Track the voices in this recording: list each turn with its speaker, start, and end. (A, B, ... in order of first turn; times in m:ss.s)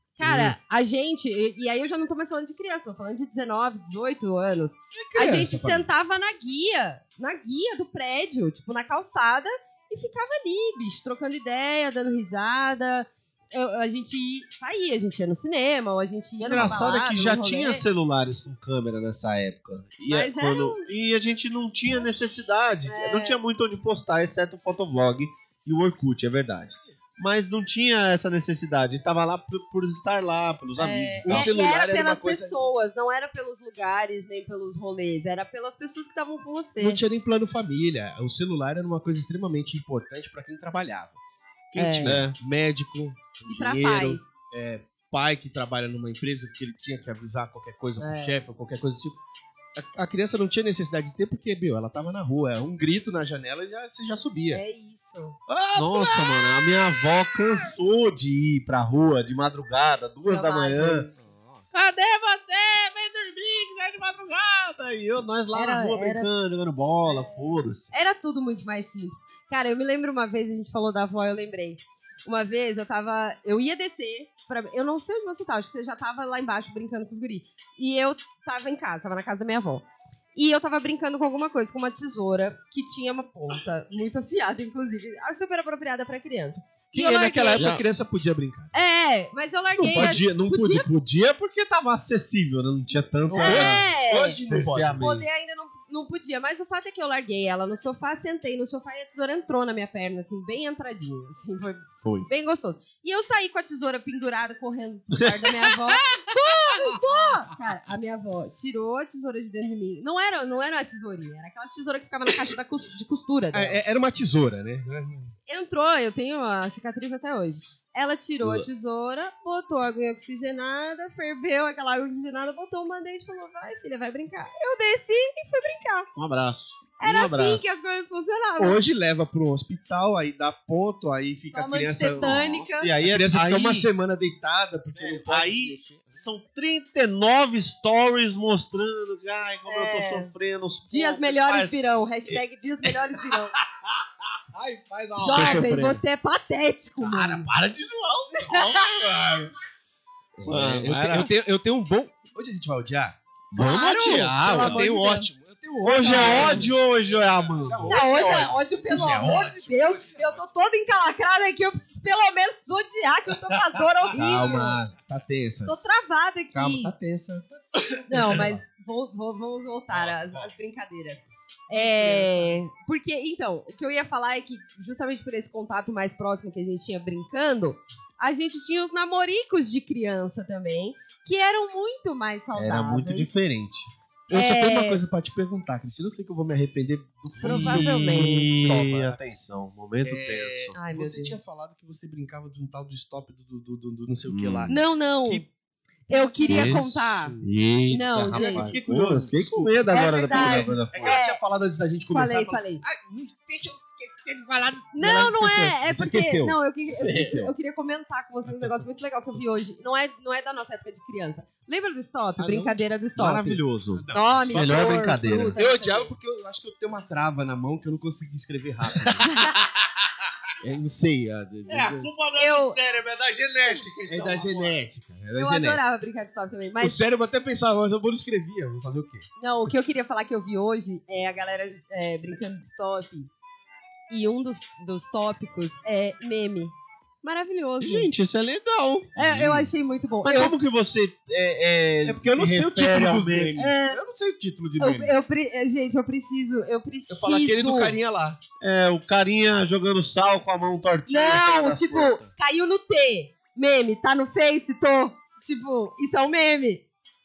0:00.2-0:17.8 A
0:00.2-0:00.6 B
0:04.9-0:05.9 C
0:16.4-0:31.5 B
0:20.1-0:20.9 A
0:22.9-0:23.4 A
0:30.8-0:37.0 A
0:31.2-0:32.7 C
0:36.8-0:41.2 C
0:41.7-0:49.2 C
0:41.8-0:42.2 A
0:42.0-0:42.4 B
0:43.5-0:44.4 A
0:48.0-0:48.4 A
0:49.8-0:54.6 C
0:54.5-0:55.4 A
0:55.5-0:56.7 C
0:55.8-1:01.1 B
1:00.2-1:01.1 A
1:01.2-1:01.7 C
1:01.7-1:07.9 B
1:05.5-1:06.3 A
1:07.1-1:07.4 A
1:07.9-1:27.7 A
1:26.9-1:28.7 C
1:27.6-1:27.8 B
1:28.7-1:30.9 A
1:29.8-1:35.3 B
1:33.3-1:35.1 C
1:33.4-1:34.4 A
1:35.0-1:53.8 A
1:45.2-1:46.2 B
1:53.5-1:55.3 C
1:55.5-2:06.1 A
2:06.2-2:07.7 B
2:07.0-2:08.8 A
2:08.6-2:12.5 C
2:11.5-2:12.9 A
2:12.2-2:13.9 B
2:13.1-2:16.1 C
2:15.0-2:21.7 B
2:19.7-2:20.3 A
2:20.9-2:23.6 A
2:24.5-2:25.9 C
2:25.2-2:26.0 B
2:25.2-2:27.5 A
2:27.0-2:29.5 B
2:28.4-2:29.4 A
2:30.4-2:33.2 C
2:30.5-2:31.3 B
2:33.5-2:35.3 B
2:33.6-2:35.3 A
2:34.5-2:40.4 C
2:35.8-2:38.6 B
2:36.0-2:36.7 A
2:37.9-2:44.8 A
2:43.5-2:44.7 B
2:44.1-2:45.7 C
2:45.7-2:46.9 A
2:46.5-2:47.5 C
2:47.9-2:48.4 B
2:48.1-3:03.4 A
2:48.2-2:48.5 C
2:49.9-2:50.5 C
2:51.7-2:52.6 C
3:02.5-3:03.9 B
3:04.3-3:09.2 C
3:04.3-3:05.0 A
3:07.4-3:08.7 A
3:07.4-3:10.8 B
3:10.0-3:15.5 C
3:10.8-3:11.4 A
3:14.3-3:14.7 B
3:14.7-3:15.4 A
3:16.1-3:17.3 A
3:16.1-3:17.5 C
3:16.5-3:21.2 B
3:17.9-3:18.7 A
3:18.3-3:27.5 C
3:19.9-3:21.4 A
3:22.1-3:22.8 A
3:24.9-3:36.1 A
3:28.5-3:28.8 C
3:32.4-3:32.8 C
3:33.2-3:35.6 B
3:33.9-3:39.3 C
3:39.2-3:39.5 A
3:40.6-3:42.1 C
3:41.7-3:44.8 B
3:42.4-3:42.8 A
3:44.1-3:45.8 C
3:45.4-3:47.0 A
3:46.8-3:49.3 C
3:49.4-3:53.3 A
3:54.1-3:58.1 A
3:57.8-3:59.7 B
3:59.2-4:00.5 A
4:00.2-4:04.0 B
4:02.0-4:05.2 C
4:04.8-4:08.0 A
4:07.1-4:08.4 C
4:08.6-4:12.3 B
4:11.1-4:16.8 A